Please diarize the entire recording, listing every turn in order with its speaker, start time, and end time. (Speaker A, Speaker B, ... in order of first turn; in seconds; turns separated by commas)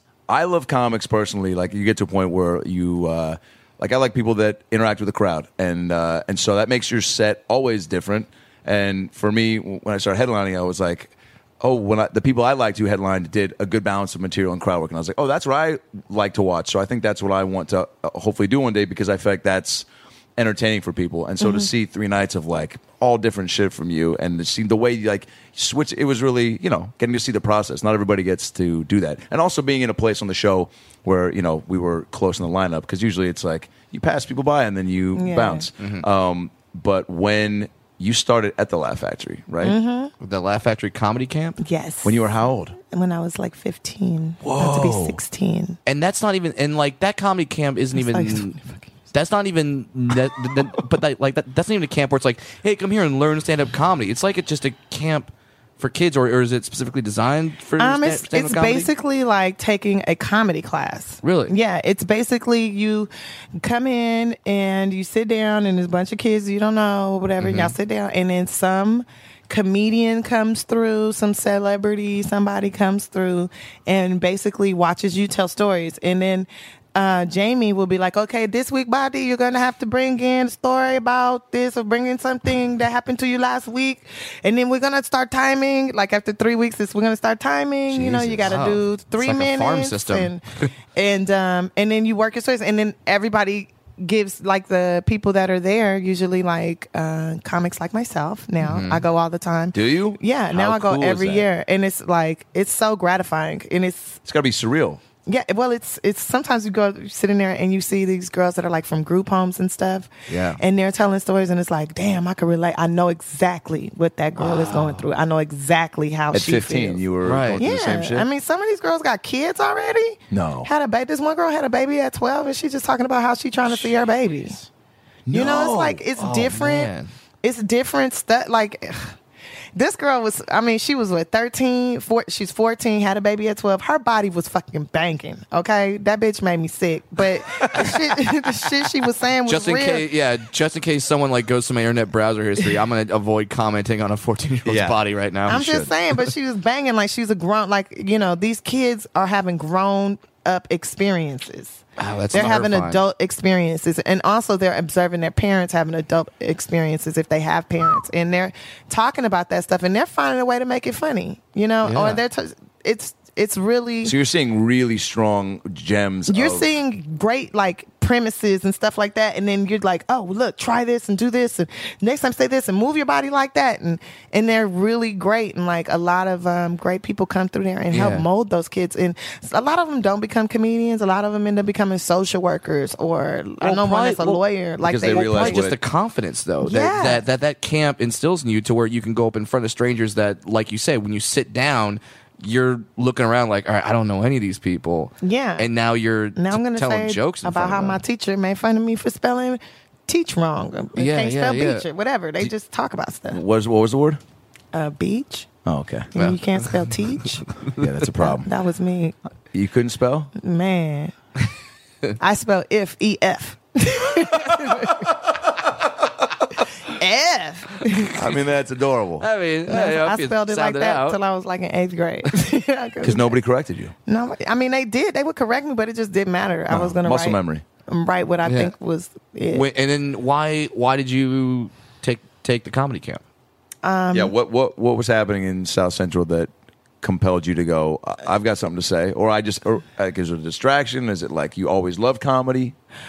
Speaker A: 0.3-39.8, Speaker B: 35.1-35.7, Speaker C: 35.8-36.0, Speaker B: 39.6-40.1, Speaker C: 40.2-41.6, Speaker B: 41.6-42.2, Speaker A: 42.0-42.8, Speaker B: 42.8-45.8, Speaker A: 44.4-45.2, Speaker C: 45.9-48.6, Speaker B: 48.0-48.8, Speaker C: 49.1-58.9, Speaker B: 57.8-90.4, Speaker C: 61.2-61.5, Speaker C: 67.4-67.7, Speaker A: 87.9-88.6, Speaker C: 88.4-90.7, Speaker B: 91.0-104.2, Speaker C: 98.6-99.0, Speaker A: 99.7-101.5, Speaker A: 104.2-105.0, Speaker B: 105.3-117.0, Speaker C: 110.3-110.6, Speaker C: 114.4-115.0, Speaker A: 116.3-118.3, Speaker C: 117.2-117.6, Speaker B: 117.6-124.6, Speaker A: 120.3-120.7, Speaker A: 125.3-126.0, Speaker B: 125.3-126.9, Speaker C: 126.2-127.1, Speaker B: 127.4-129.2, Speaker B: 129.8-140.1, Speaker A: 137.6-138.0, Speaker C: 139.5-145.7, Speaker A: 144.7-145.9, Speaker B: 145.5-164.2, Speaker C: 152.0-153.0, Speaker C: 161.8-162.2, Speaker A: 164.0-166.7, Speaker B: 166.3-185.6, Speaker C: 177.9-178.3, Speaker C: 183.6-184.4, Speaker A: 184.8-185.8, Speaker C: 185.0-198.0, Speaker B: 186.6-187.2, Speaker B: 195.2-195.7, Speaker B: 196.4-203.4, Speaker C: 201.0-201.8, Speaker A: 203.3-204.2, Speaker B: 204.7-205.5, Speaker A: 205.7-206.1, Speaker B: 206.2-207.5, Speaker C: 206.2-206.9, Speaker A: 207.8-208.5, Speaker B: 208.2-209.2, Speaker A: 209.5-210.3, Speaker B: 210.3-211.1, Speaker B: 212.2-215.1, Speaker B: 216.8-218.2, Speaker A: 218.2-219.3, Speaker C: 219.2-221.2, Speaker B: 219.7-223.4, Speaker A: 223.0-223.9, Speaker B: 224.1-229.7, Speaker A: 226.7-227.6, Speaker C: 228.4-228.7, Speaker C: 229.5-233.2, Speaker B: 233.8-234.3, Speaker A: 234.1-236.5, Speaker A: 237.0-242.8